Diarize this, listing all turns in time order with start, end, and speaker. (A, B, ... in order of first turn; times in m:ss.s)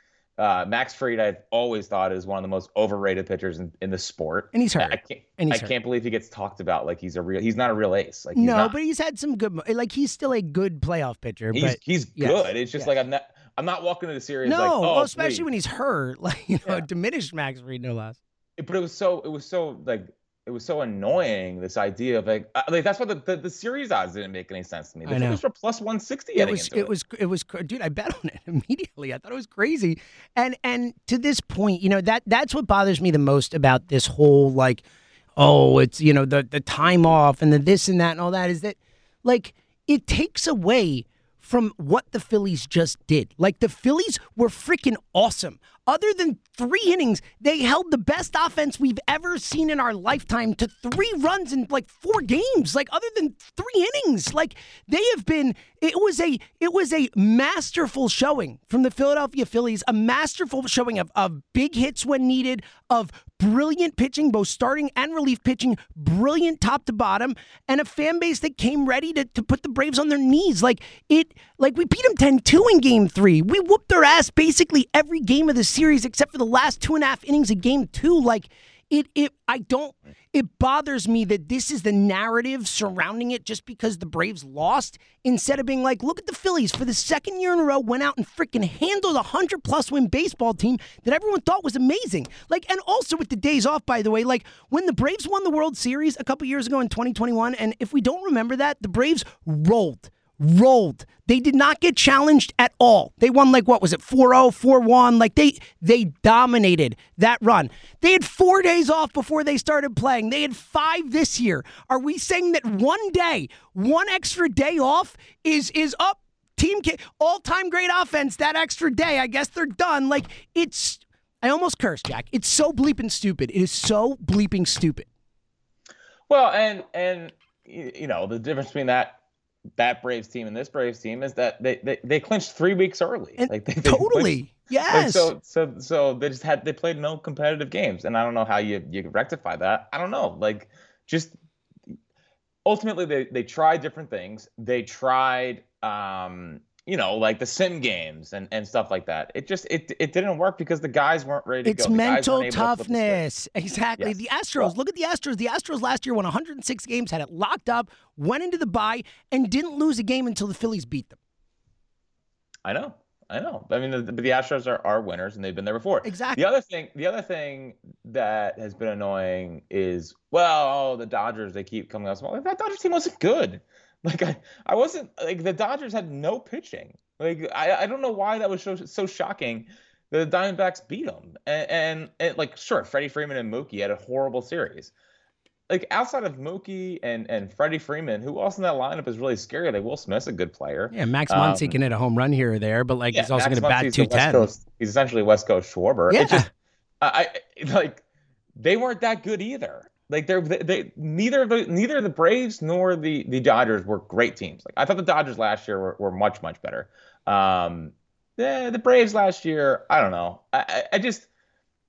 0:00.4-0:08.7 A
0:04.5-0:05.7 B
0:08.3-0:12.9 B
0:11.5-0:15.4 A
0:14.4-0:18.2 B
0:18.6-0:26.9 A
0:25.1-0:25.4 B
0:26.4-0:34.8 B
0:35.4-2:05.0 B
2:06.3-2:09.2 A
2:09.8-2:21.3 A
2:13.4-2:15.3 B
2:22.6-2:33.2 A
2:31.6-2:41.2 B
2:34.0-2:34.7 A
2:42.6-3:04.9 A
2:46.0-2:46.4 B
3:05.7-3:11.8 A
3:10.9-3:14.5 B
3:13.1-3:16.4 A
3:16.1-3:16.5 B
3:17.0-3:18.0 A
3:18.6-3:31.2 A